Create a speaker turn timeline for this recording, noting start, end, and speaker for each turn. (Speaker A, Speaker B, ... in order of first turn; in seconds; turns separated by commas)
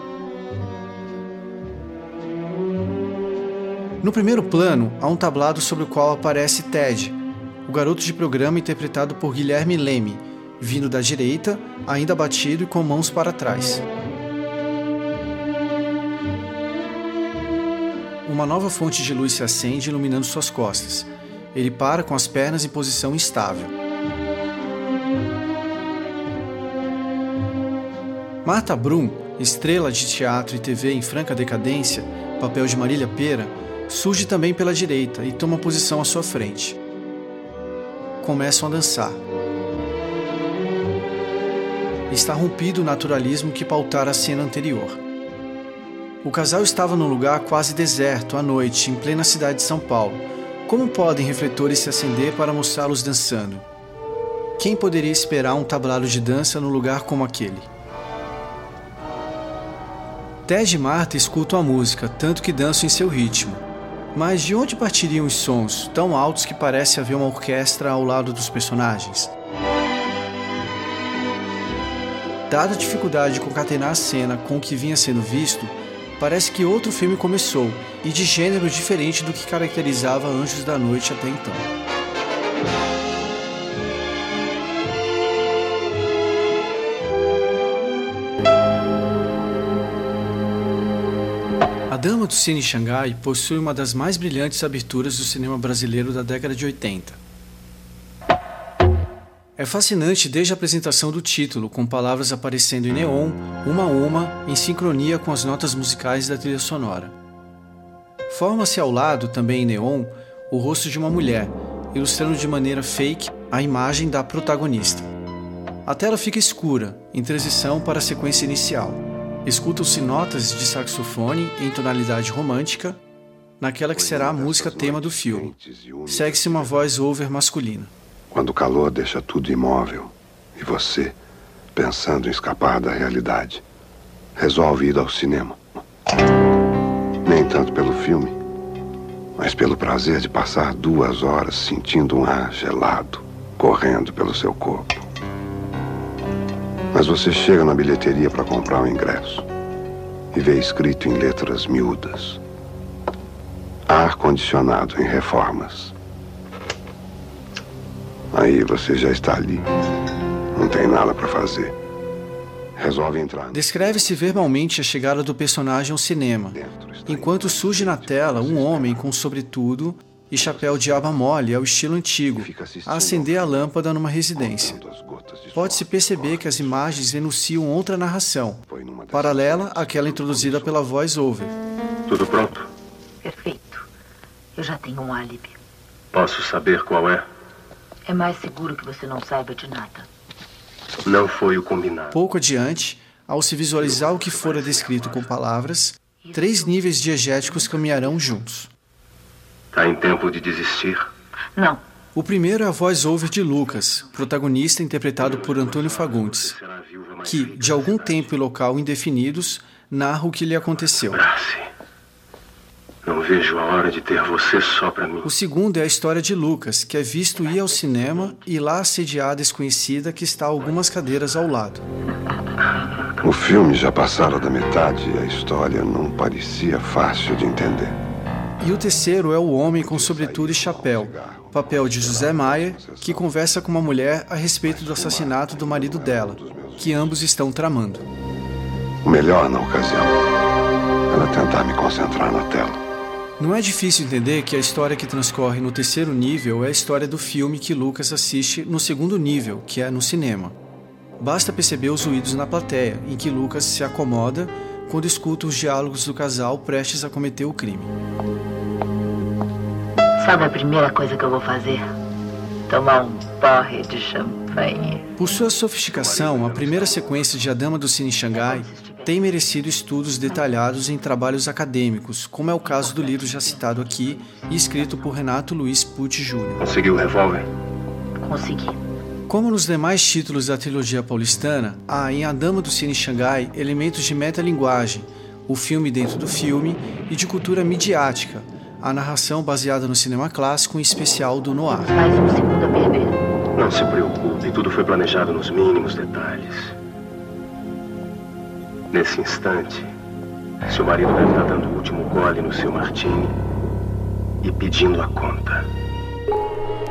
Speaker A: 4.0-13.8, Speaker A: 18.2-23.7, Speaker A: 28.4-36.8, Speaker A: 38.2-39.2, Speaker A: 42.1-45.0, Speaker A: 46.2-53.6, Speaker A: 54.6-57.7, Speaker A: 60.5-63.6, Speaker A: 64.1-69.3, Speaker A: 72.5-81.7, Speaker A: 91.9-97.2, Speaker A: 99.6-107.1, Speaker A: 108.3-115.1, Speaker A: 115.8-123.0, Speaker A: 123.6-125.5, Speaker B: 123.9-126.8, Speaker A: 126.1-127.9, Speaker B: 128.3-131.2, Speaker B: 131.8-133.7, Speaker B: 134.4-135.6, Speaker B: 137.2-138.4, Speaker B: 139.4-145.1, Speaker B: 146.9-149.5, Speaker B: 150.3-152.4, Speaker B: 153.9-155.9, Speaker B: 158.3-159.7, Speaker B: 160.5-161.8, Speaker B: 162.8-164.5, Speaker A: 163.5-174.8, Speaker B: 166.5-169.1, Speaker B: 170.4-171.0, Speaker B: 172.3-173.8, Speaker B: 174.3-177.0, Speaker A: 175.5-181.5, Speaker B: 178.7-180.9, Speaker C: 182.1-182.7, Speaker D: 183.2-183.9, Speaker D: 184.6-185.6, Speaker C: 186.1-187.3, Speaker D: 188.1-190.1, Speaker C: 191.1-192.2, Speaker A: 192.1-198.7, Speaker C: 193.8-195.3, Speaker D: 196.2-198.4, Speaker C: 199.7-201.1, Speaker D: 201.6-201.8, Speaker A: 202.2-206.6, Speaker D: 203.4-204.3, Speaker C: 205.2-208.3, Speaker A: 207.2-211.2, Speaker C: 210.9-211.7, Speaker C: 213.0-215.3, Speaker A: 215.2-221.8, Speaker D: 217.3-218.5, Speaker D: 220.6-220.9, Speaker B: 223.2-228.0, Speaker A: 228.6-238.0, Speaker B: 229.7-233.3, Speaker B: 234.6-237.2, Speaker B: 239.0-240.2, Speaker B: 241.1-242.8, Speaker A: 243.4-250.6, Speaker A: 251.2-257.9, Speaker D: 260.2-261.9, Speaker D: 262.7-265.1, Speaker A: 265.2-276.6, Speaker C: 265.8-267.6, Speaker D: 268.3-269.3, Speaker D: 272.5-275.2, Speaker C: 276.6-277.5, Speaker D: 278.2-278.8, Speaker A: 279.3-292.0, Speaker D: 291.9-293.2, Speaker C: 293.6-296.7, Speaker C: 298.9-299.9, Speaker C: 300.7-303.4, Speaker C: 304.4-305.7